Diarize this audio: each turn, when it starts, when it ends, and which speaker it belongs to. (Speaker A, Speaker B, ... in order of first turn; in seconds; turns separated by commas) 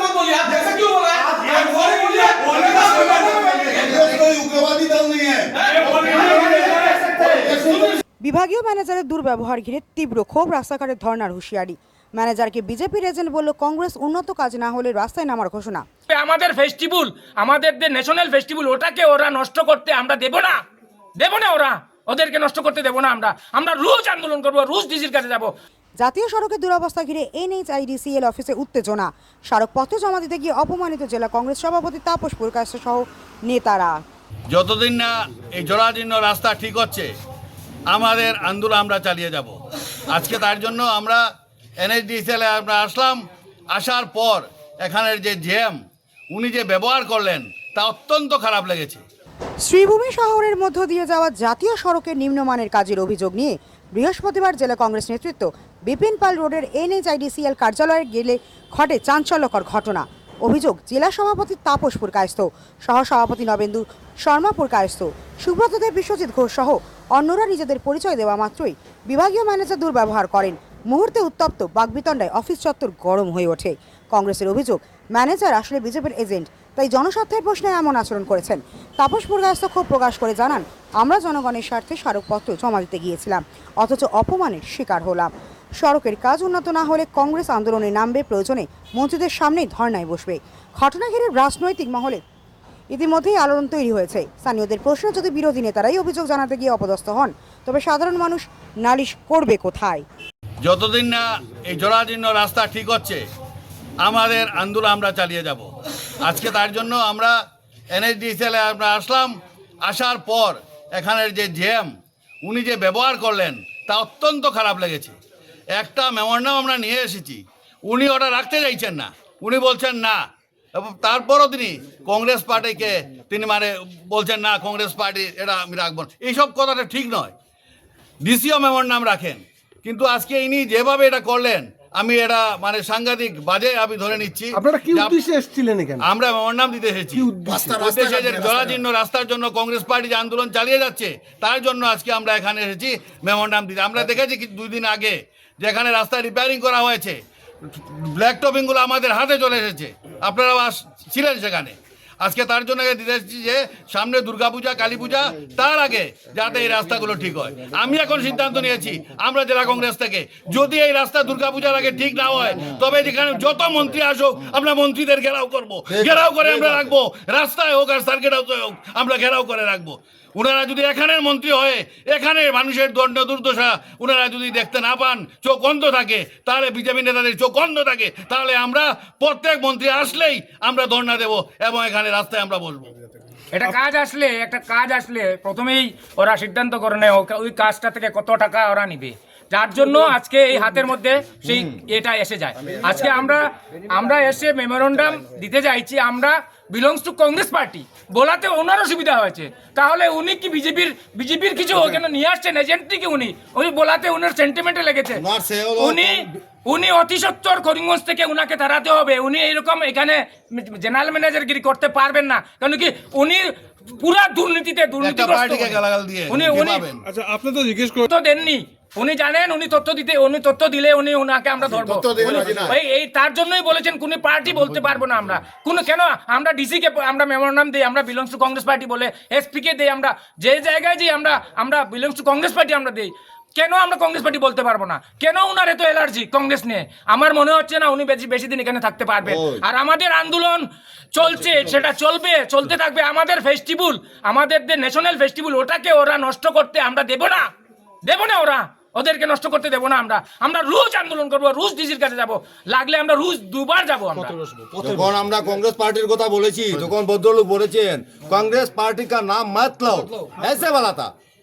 Speaker A: 1.4-8.0, Speaker B: 8.2-15.8, Speaker C: 16.1-20.6, Speaker C: 21.2-25.5, Speaker B: 26.0-34.0, Speaker D: 34.5-37.1, Speaker D: 37.9-39.6, Speaker D: 40.1-41.2, Speaker D: 41.8-43.2, Speaker D: 43.7-45.8, Speaker D: 46.3-49.0, Speaker B: 49.6-92.2, Speaker B: 92.9-100.0, Speaker D: 100.6-103.2, Speaker D: 104.0-105.7, Speaker D: 106.2-107.3, Speaker D: 108.0-111.9, Speaker D: 112.4-115.2, Speaker D: 115.8-120.2, Speaker D: 120.8-127.3, Speaker D: 128.2-135.2, Speaker E: 134.7-136.0, Speaker D: 136.0-182.9, Speaker A: 165.9-166.5, Speaker C: 183.5-205.2, Speaker A: 205.2-206.1, Speaker C: 205.8-216.9, Speaker D: 215.0-217.0, Speaker E: 217.1-218.0, Speaker C: 218.0-247.5, Speaker A: 221.8-222.8, Speaker A: 239.3-239.6, Speaker C: 248.1-254.4, Speaker A: 254.8-261.1